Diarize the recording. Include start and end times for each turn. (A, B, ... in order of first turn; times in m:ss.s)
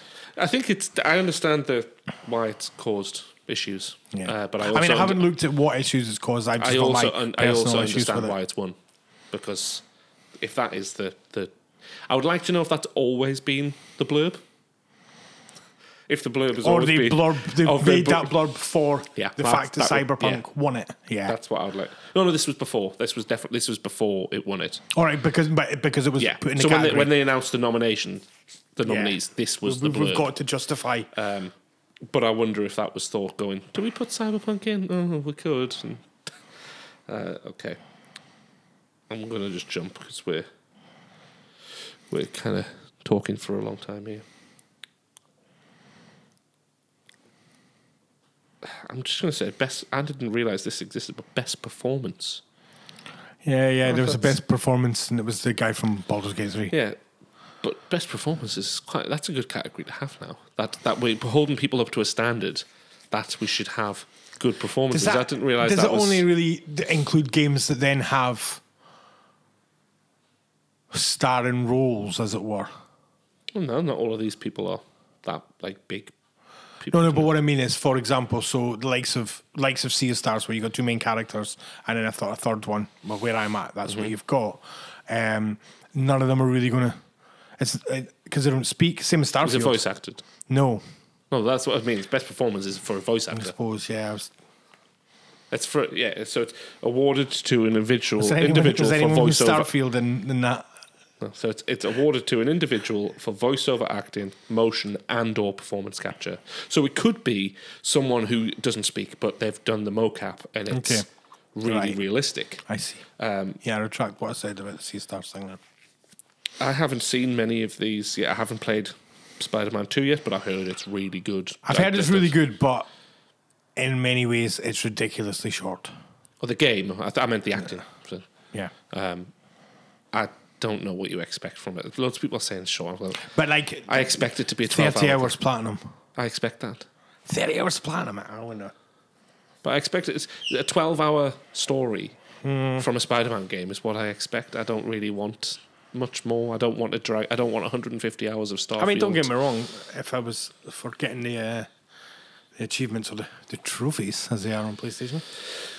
0:00.4-0:05.3 A
0:04.1-0:08.3 B
0:06.6-0:08.8 A
0:09.3-0:09.8 A
0:10.4-0:11.5 A
0:12.1-0:14.4 A
0:16.1-0:18.4 A
0:16.6-0:21.4 B
0:19.1-0:20.4 A
0:21.2-0:24.8 A
0:24.9-0:27.1 B
0:26.2-0:30.3 A
0:28.8-0:31.1 B
0:31.1-0:31.5 A
0:32.1-0:36.3 A
0:37.1-0:37.8 A
0:39.1-0:40.5 A
0:42.1-0:44.2 A
0:48.6-0:52.4 A
0:53.4-0:56.7 B
0:53.8-0:54.4 A
0:56.7-0:57.0 A
0:57.6-1:06.2 A
1:04.9-1:08.6 B
1:10.9-1:12.7 B
1:13.5-1:16.1 A
1:16.8-1:17.3 A
1:16.9-1:27.0 B
1:23.9-1:24.1 A
1:27.6-1:29.8 B
1:29.4-1:30.2 A
1:30.5-1:30.8 B
1:31.3-1:33.6 A
1:33.3-1:34.3 B
1:35.5-1:39.7 A
1:38.2-1:40.6 B
1:41.2-1:52.6 A
1:50.7-1:51.0 B
1:51.6-1:52.0 B
1:52.7-1:53.0 B
1:53.2-1:53.6 A
1:53.6-1:55.6 B
1:56.6-2:02.4 A
2:01.6-2:02.9 B
2:03.8-2:05.9 B
2:06.4-2:08.3 A
2:08.9-2:09.3 A
2:10.1-2:13.3 A
2:13.2-2:15.8 B
2:13.9-2:15.4 A
2:16.2-2:16.9 A
2:17.3-2:18.7 B
2:19.6-2:22.2 A
2:22.4-2:22.8 B
2:22.8-2:29.3 A
2:28.8-2:31.7 B
2:32.6-2:35.2 B